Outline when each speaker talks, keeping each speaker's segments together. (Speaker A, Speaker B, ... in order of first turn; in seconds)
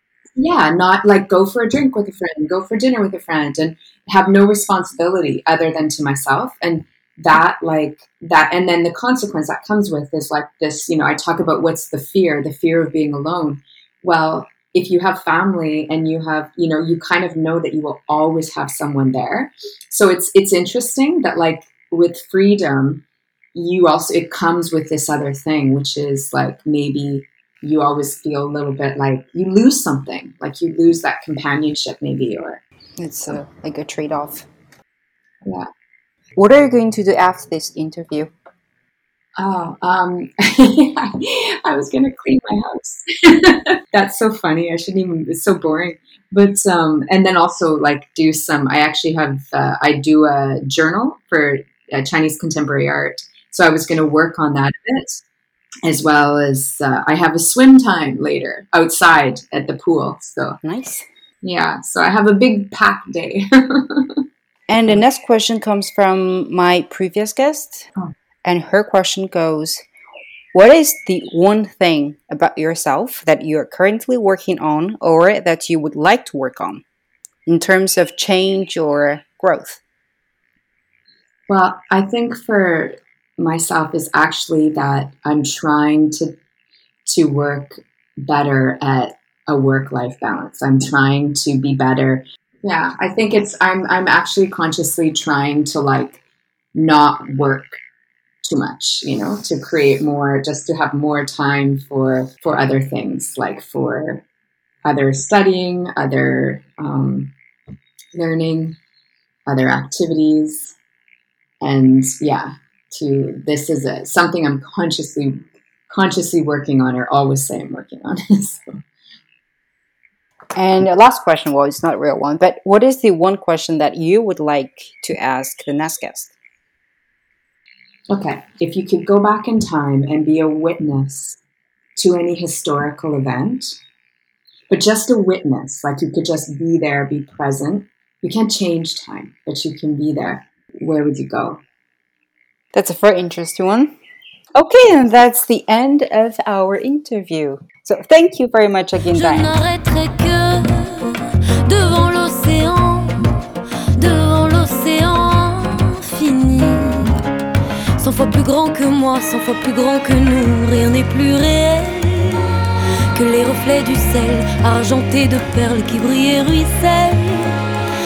Speaker A: 0.4-23.0, 23.5-32.6, 35.4-35.7, 39.4-55.2, 55.8-60.6, 61.4-64.2, 81.5-86.3, 87.0-96.2, 96.7-97.8, 98.4-104.2, 104.8-107.3, 108.1-108.8, 109.5-110.8, 111.6-118.8, 128.1-131.4, 131.9-133.8, 134.7-141.6
Speaker B: 33.0-34.5, 36.4-38.3, 60.6-61.1, 64.7-67.9, 68.4-69.8, 70.5-76.8, 77.5-79.8, 120.5-126.3, 142.7-143.9, 144.5-149.5
Speaker C: 149.1-153.4, 153.9-157.2, 158.0-167.6